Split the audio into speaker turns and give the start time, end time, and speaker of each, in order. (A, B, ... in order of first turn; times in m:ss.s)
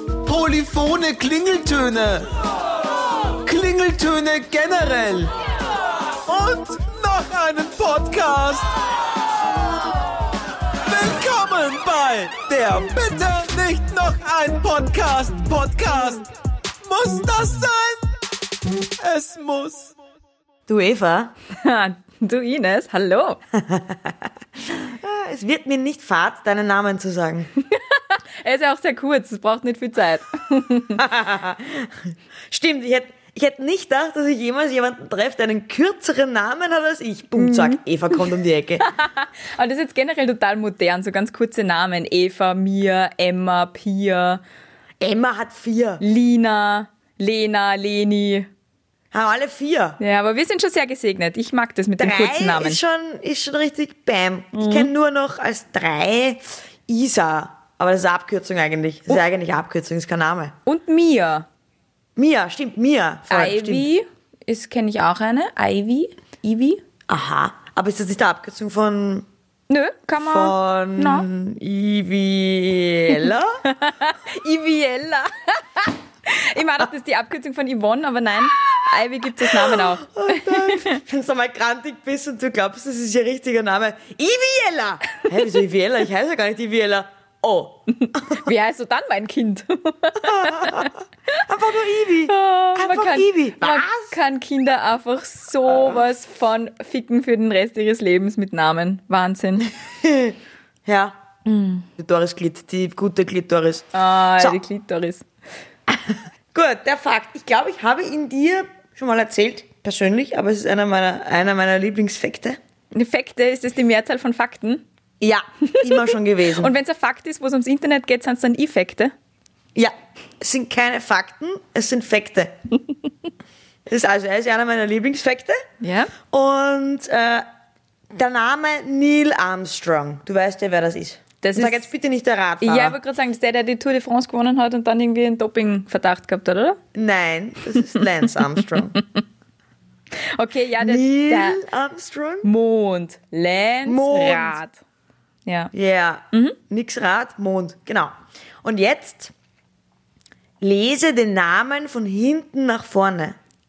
0:00.2-0:02.3 A
0:03.4-0:05.3 A
0:06.2-0:08.7 A
0:10.9-0:16.3 A
0:16.8-0:18.0 A
0:19.0-0:19.9 A
0:20.7-0:21.3 B
0:21.5-0:23.4 C
0:23.5-0:27.5 B
0:27.7-0:31.0 C
0:31.0-0:38.8 B
0:37.4-0:37.8 C
0:38.8-0:44.4 C
0:45.0-0:46.0 B
0:46.0-0:48.5 C
0:49.1-0:50.0 B
0:50.0-0:52.8 C
0:52.0-1:00.6 B
0:54.5-0:54.9 C
1:00.7-1:01.5 C
1:02.2-1:03.9 B
1:03.3-1:06.8 C
1:07.1-1:09.3 B
1:09.7-1:11.3 C
1:10.2-1:13.6 B
1:13.6-1:21.0 C
1:19.4-1:28.5 B
1:28.0-1:30.9 C
1:30.2-1:34.1 B
1:32.3-1:39.7 C
1:35.7-1:36.0 B
1:39.8-1:41.2 B
1:41.4-1:41.9 C
1:42.0-1:44.6 B
1:43.9-1:45.3 C
1:45.9-1:52.6 B
1:52.9-1:54.8 C
1:55.2-1:56.7 B
1:55.6-1:59.1 C
1:59.8-2:02.5 B
2:03.9-2:05.6 B
2:05.8-2:06.1 C
2:06.2-2:07.5 B
2:08.1-2:13.0 B
2:11.4-2:11.9 C
2:12.6-2:16.8 C
2:16.9-2:19.0 B
2:20.3-2:21.6 C
2:20.8-2:22.5 B
2:22.4-2:24.8 C
2:23.8-2:24.6 B
2:25.5-2:25.7 C
2:25.7-2:29.3 B
2:26.3-2:26.6 C
2:30.6-2:33.4 B